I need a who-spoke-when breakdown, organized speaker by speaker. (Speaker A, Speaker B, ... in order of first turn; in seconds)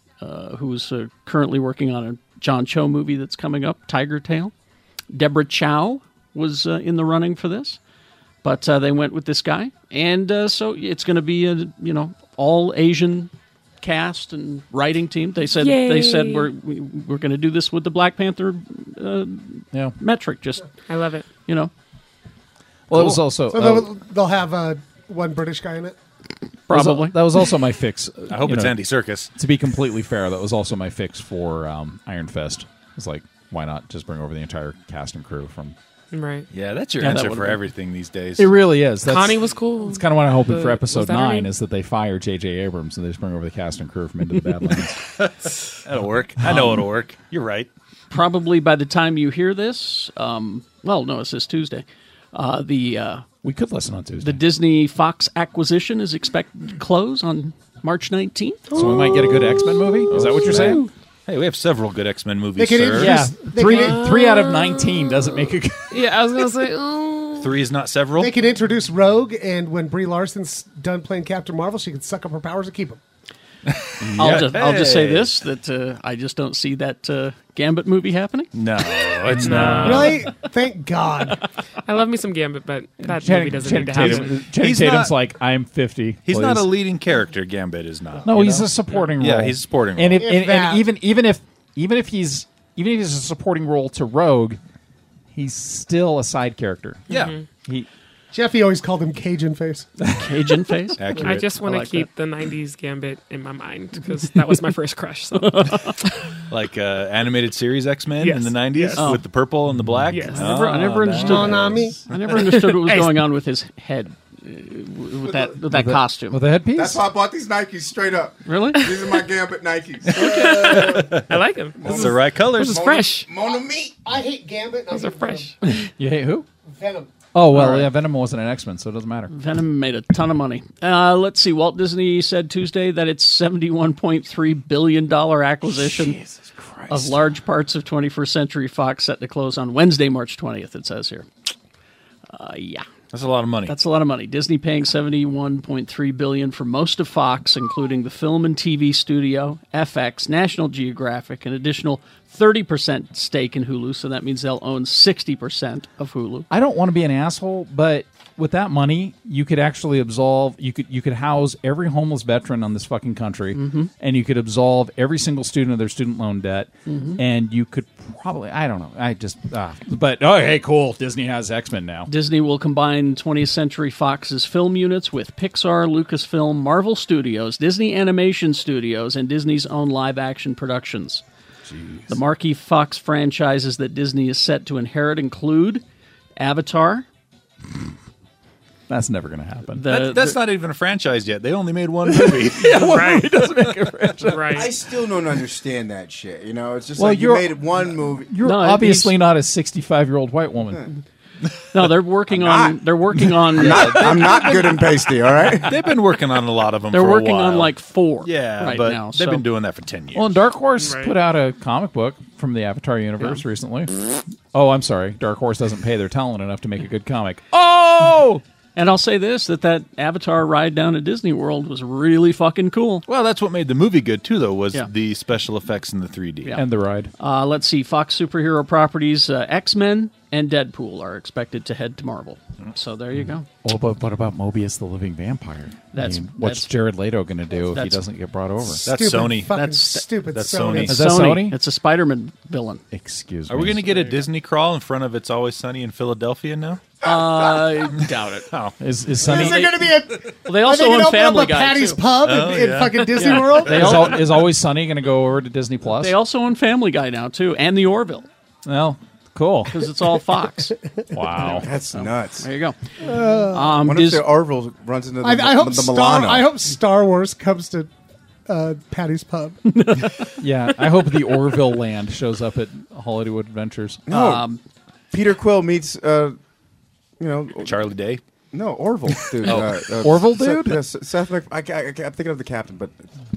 Speaker A: 0.2-4.5, 5.1-7.8, 8.4-20.7, 21.4-21.7, 26.7-27.5, 37.0-37.6, 48.1-53.2, 54.2-58.7, 74.1-79.7, 100.1-102.1, 105.3-106.0, 109.0-109.2, 110.2-116.4, 118.5-118.9, 127.5-127.9, 129.3-136.2, 136.9-141.3, 142.3-142.9, 143.7-156.5, 163.5-163.9, 166.9-167.2, 172.1-181.2, 182.1-185.8, 186.4-187.1, 189.8-190.4, 198.4-199.2, 201.7-204.8, 206.9-209.4, 218.8-223.0, 227.2-233.5, 235.9-236.7, 237.7-238.0, 239.5-240.1, 240.8-242.8, 247.0-248.5, 250.4-252.1, 253.1-254.2, 255.9-258.3, 259.7-260.7, 261.4-264.3, 269.7-270.4, 274.1-274.6
Speaker B: 15.6-16.5, 20.9-21.3, 36.1-36.5, 39.0-41.5, 63.6-65.0, 65.9-67.5, 79.4-80.0, 81.8-84.4, 97.1-97.4, 101.2-106.3, 108.2-109.2, 110.1-110.5, 112.4-113.2, 120.1-123.3, 124.9-125.5, 192.7-193.3, 194.2-194.7, 210.8-211.1
Speaker C: 22.9-23.9, 26.7-28.8, 29.4-35.8, 38.4-45.0, 46.4-46.9, 53.4-54.4, 58.7-60.8, 62.9-66.0, 74.0-74.6, 79.4-80.1, 83.0-86.7, 88.2-94.6, 95.3-97.1, 100.0-100.5, 115.7-117.0, 125.7-126.5, 127.3-129.3, 156.5-172.1, 188.9-189.9, 192.1-194.7, 197.0-200.9, 203.5-204.3, 210.1-214.0, 214.5-218.4, 226.5-227.1, 233.6-238.8, 240.8-241.6, 242.9-244.0, 248.8-249.8, 253.6-256.2, 258.6-259.9, 261.1-261.7, 270.4-274.0, 279.4-280.8
Speaker D: 23.5-25.9, 58.7-60.9, 62.6-64.1, 68.2-73.0, 79.8-81.4, 90.2-90.9, 98.3-99.9, 111.2-112.0, 124.0-125.5, 126.7-127.1, 238.8-241.0, 249.2-254.2, 263.0-263.7, 265.2-267.9, 268.5-269.6
Speaker E: 28.3-29.3, 36.5-38.5, 45.0-47.7, 60.6-63.2, 67.4-68.3, 73.7-75.3, 78.5-80.2, 84.0-85.1, 86.2-90.3, 97.1-97.3, 101.0-101.5, 106.5-111.8, 120.3-121.3, 121.8-122.9, 135.8-137.1, 143.1-143.7, 189.9-192.8, 203.8-204.5, 205.6-207.7, 208.2-210.4, 223.1-226.6, 238.8-239.5, 240.3-240.9, 243.5-246.9, 248.0-248.7, 252.2-253.7, 277.6-278.2, 279.4-279.7
Speaker F: 115.2-115.5, 116.8-121.3, 121.8-124.0, 194.5-198.3, 202.3-202.8, 203.5-205.8, 247.0-247.7, 261.4-262.5, 263.7-266.5, 274.1-274.5, 275.1-276.4, 277.2-277.8, 278.5-282.9